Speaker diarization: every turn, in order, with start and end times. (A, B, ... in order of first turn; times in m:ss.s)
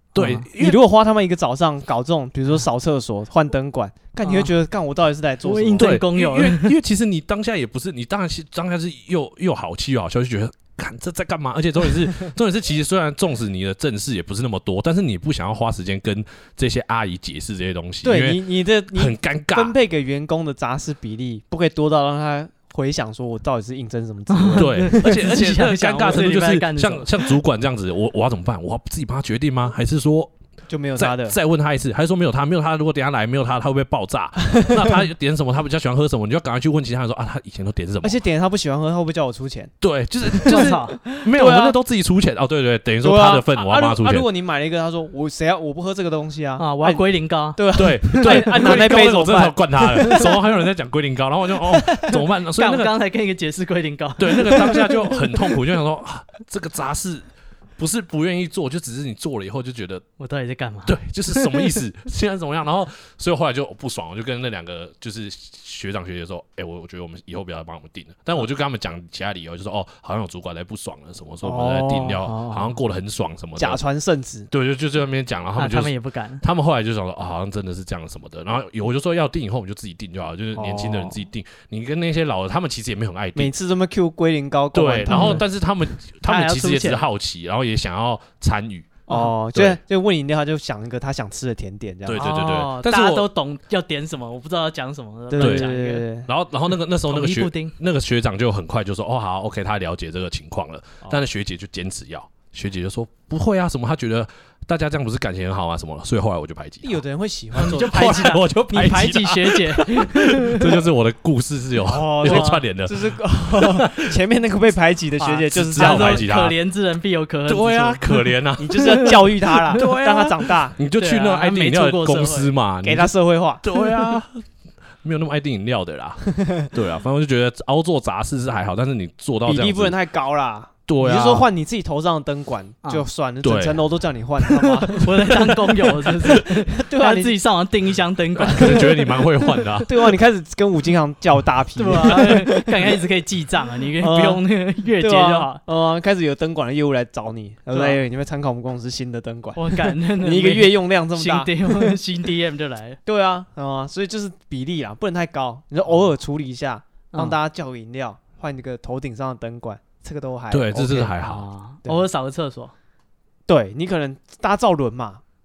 0:00.1-0:00.8 A
0:00.2-0:00.4 B
0:00.6-0:06.0 C
0:04.2-0:04.5 B
0:05.4-0:06.7 B
0:05.8-0:19.7 A
0:18.0-0:25.2 C
0:24.3-0:27.3 B
0:24.5-0:30.3 A
0:30.7-0:31.4 C
0:31.0-0:38.2 A
0:34.6-0:35.0 C
0:38.0-0:39.7 C
0:39.8-0:44.2 A
0:40.3-0:41.8 C
0:40.5-0:41.0 B
0:43.0-0:50.4 C
0:46.6-0:48.9 B
0:47.7-0:52.9 A
0:50.0-0:50.4 B
0:51.7-0:55.1 B
0:54.2-0:57.2 A
0:57.8-1:00.0 A
1:00.2-1:01.7 B
1:00.8-1:13.8 A
1:11.4-1:12.4 C
1:13.6-1:14.5 C
1:14.5-1:23.5 A
1:15.6-1:16.4 B
1:20.5-1:21.2 C
1:23.3-1:25.4 C
1:24.7-1:29.8 A
1:25.1-1:25.4 B
1:26.2-1:27.0 B
1:29.1-1:32.4 C
1:32.0-1:33.3 A
1:32.2-1:36.0 B
1:35.3-1:36.3 C
1:35.4-1:47.0 A
1:37.1-1:37.7 B
1:46.8-1:49.1 C
1:47.6-1:50.8 B
1:47.6-1:54.2 A
1:51.8-1:56.2 C
1:52.2-1:52.6 B
1:55.2-1:58.3 B
1:55.5-1:56.6 A
1:57.5-2:03.1 A
1:58.6-2:00.8 C
2:00.9-2:02.5 B
2:02.8-2:03.6 C
2:03.6-2:04.4 A
2:03.7-2:04.1 B
2:05.0-2:09.9 A
2:09.4-2:15.4 C
2:10.9-2:11.5 A
2:13.4-2:13.8 A
2:14.9-2:19.6 B
2:16.3-2:17.4 C
2:18.4-2:18.8 C
2:18.4-2:20.1 A
2:19.8-2:23.0 C
2:21.8-2:25.6 B
2:24.0-2:24.4 C
2:25.0-2:32.0 C
2:27.7-2:28.0 B
2:29.5-2:33.0 B
2:33.0-2:41.1 C
2:40.5-2:41.4 A
2:41.2-2:42.7 B
2:43.5-2:45.2 C